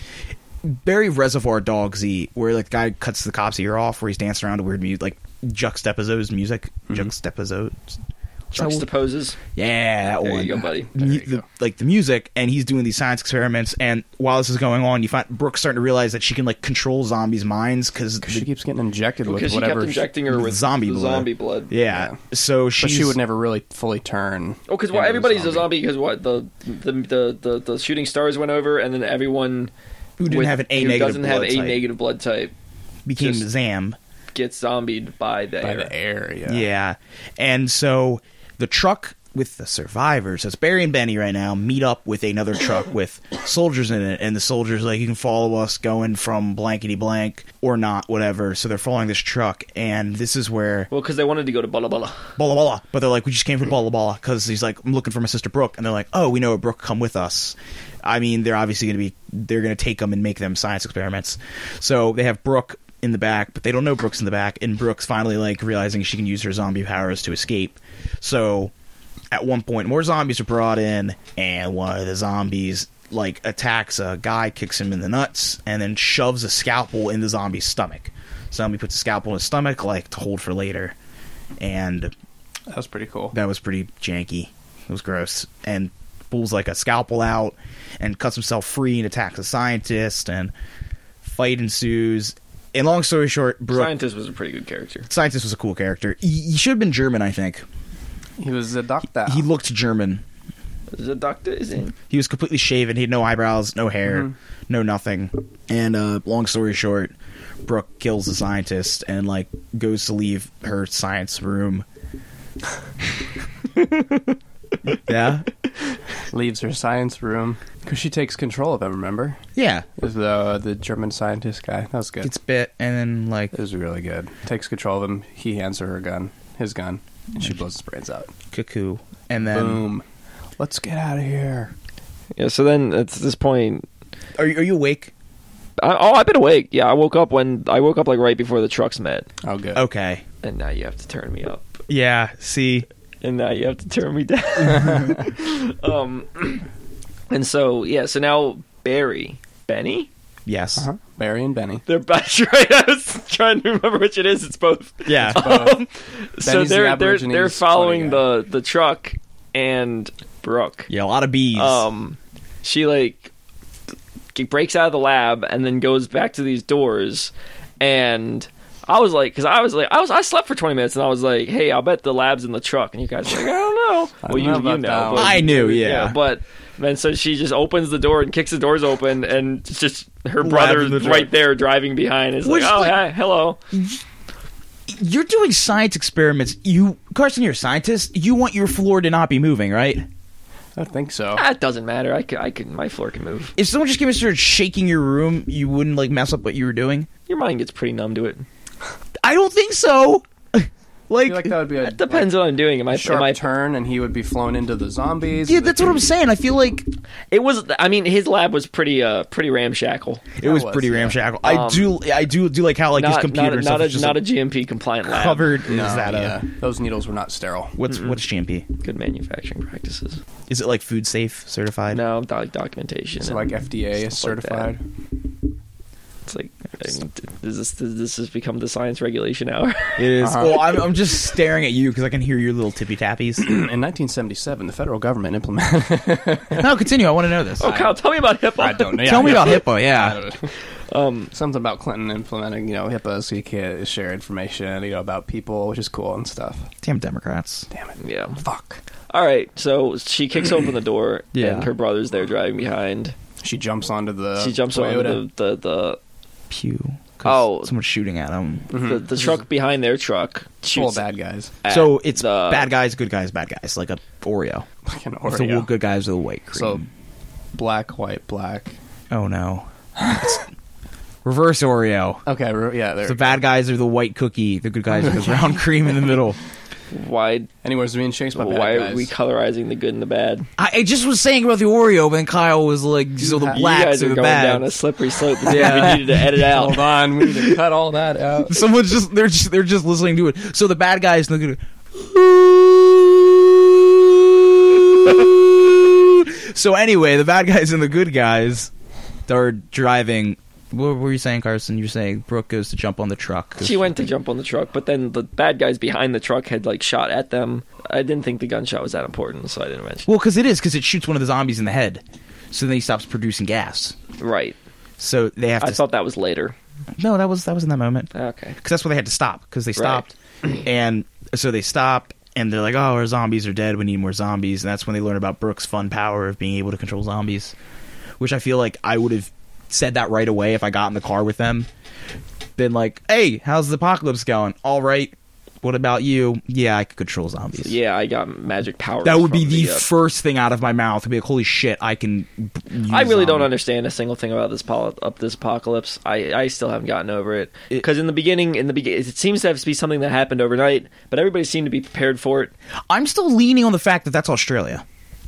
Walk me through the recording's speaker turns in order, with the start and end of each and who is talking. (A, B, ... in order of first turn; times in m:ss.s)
0:00.6-0:07.8 A
0:08.5-0:08.9 A
0:08.5-0:09.4 B
0:09.5-0:18.5 A
0:10.0-0:10.9 B
0:11.0-0:11.4 C
0:18.2-0:20.1 C
0:19.2-0:21.7 B
0:20.3-0:23.2 A
0:21.9-0:22.2 C
0:22.8-0:25.7 C
0:24.7-0:29.7 B
0:30.2-0:31.8 A
0:30.3-0:32.5 B
0:33.0-0:34.0 A
0:33.2-0:33.4 B
0:34.3-0:35.9 B
0:35.6-0:36.7 C
0:36.4-0:50.9 A
0:50.9-0:52.3 B
0:52.4-1:08.7 A
1:09.3-1:20.9 A
1:21.6-1:22.1 A
1:22.7-1:23.3 C
1:23.3-1:30.5 A
1:31.2-1:33.9 A
1:33.7-1:35.1 B
1:35.1-1:37.6 A
1:38.4-1:39.5 C
1:39.2-1:40.2 A
1:40.9-1:41.9 B
1:42.1-1:47.1 A
1:44.0-1:44.3 C
1:47.6-1:51.8 A
1:53.8-1:54.3 B
1:54.9-1:55.5 A
1:56.3-1:59.4 C
1:59.6-1:59.9 A
2:00.0-2:02.3 C
2:02.2-2:03.5 A
2:03.5-2:08.3 C
2:08.5-2:09.8 A
2:09.4-2:10.0 C
2:10.6-2:11.7 C
2:12.4-2:13.8 B
2:14.4-2:15.1 A
2:15.8-2:19.3 B
2:19.4-2:19.8 C
2:19.7-2:20.2 A
2:20.4-2:21.8 B
2:21.9-2:22.8 A
2:23.2-2:26.6 B
2:27.3-2:30.1 B
2:30.4-2:30.8 A
2:30.8-2:31.8 C
2:31.9-2:40.9 B
2:35.0-2:35.8 A
2:35.3-2:35.8 C
2:36.4-2:38.2 C
2:40.9-2:41.8 A
2:41.5-2:43.3 B
2:44.3-3:03.6 B
2:54.2-2:55.5 C
2:55.1-2:56.2 A
3:00.4-3:01.3 A
3:02.4-3:03.0 A
3:03.7-3:04.0 A
3:04.9-3:10.0 A
3:10.8-3:11.4 C
3:11.3-3:13.5 B
3:13.6-3:17.1 A
3:17.3-3:18.4 B
3:19.2-3:21.6 A
3:21.2-3:26.0 C
3:21.8-3:23.4 B
3:25.4-3:26.9 A
3:27.3-3:30.2 B
3:30.4-3:34.2 A
3:30.4-3:31.3 C
3:31.4-3:32.0 B
3:33.0-3:35.6 B
3:35.1-3:36.4 A
3:35.7-3:37.8 C
3:37.8-3:38.7 A
3:37.9-3:38.2 B
3:38.8-3:40.2 B
3:40.5-3:42.0 A
3:41.9-3:44.7 B
3:43.2-3:44.8 C
3:46.3-3:50.1 B
3:50.0-3:53.5 A
3:50.2-3:50.8 C
3:53.4-3:56.7 C
3:56.5-3:57.7 A
3:57.6-3:59.6 B
3:57.6-3:58.0 C
3:58.6-4:00.5 C
3:59.0-4:00.2 A
4:00.9-4:01.3 B
4:01.3-4:06.7 C
4:06.8-4:07.7 A
4:07.7-4:08.8 C
4:08.0-4:08.4 B
4:09.1-4:13.2 B
4:11.3-4:11.7 A
4:13.4-4:15.2 C
4:14.4-4:16.0 B
4:16.5-4:18.7 A
4:17.2-4:17.7 B
4:18.7-4:19.4 C
4:18.7-4:21.0 B
4:20.7-4:21.5 C
4:21.6-4:22.7 B
4:21.7-4:24.6 A
4:24.8-4:25.7 C
4:25.3-4:26.8 A
4:26.5-4:26.8 C
4:27.5-4:28.7 C
4:29.1-4:30.5 A
4:30.0-4:30.3 C
4:31.2-4:32.2 A
4:32.2-4:33.4 C
4:33.0-4:36.4 A
4:35.0-4:35.3 C
4:36.9-4:37.5 B
4:37.6-4:39.1 C
4:38.3-4:40.5 B
4:40.6-4:44.7 A
4:43.2-4:43.6 C
4:43.5-4:46.9 B
4:45.4-4:46.2 A
4:45.5-4:48.7 C
4:48.5-4:58.7 A
4:59.3-5:04.0 A
5:03.6-5:10.1 B
5:10.0-5:14.0 A
5:14.2-5:14.6 B
5:15.0-5:15.8 A
5:15.6-5:16.5 B
5:17.0-5:27.5 A
5:18.1-5:18.6 B
5:19.8-5:20.1 B
5:28.2-5:31.7 A
5:32.6-5:37.8 A
5:37.6-5:39.9 B
5:39.0-5:43.5 A
5:42.9-5:52.5 B
5:52.9-5:54.8 A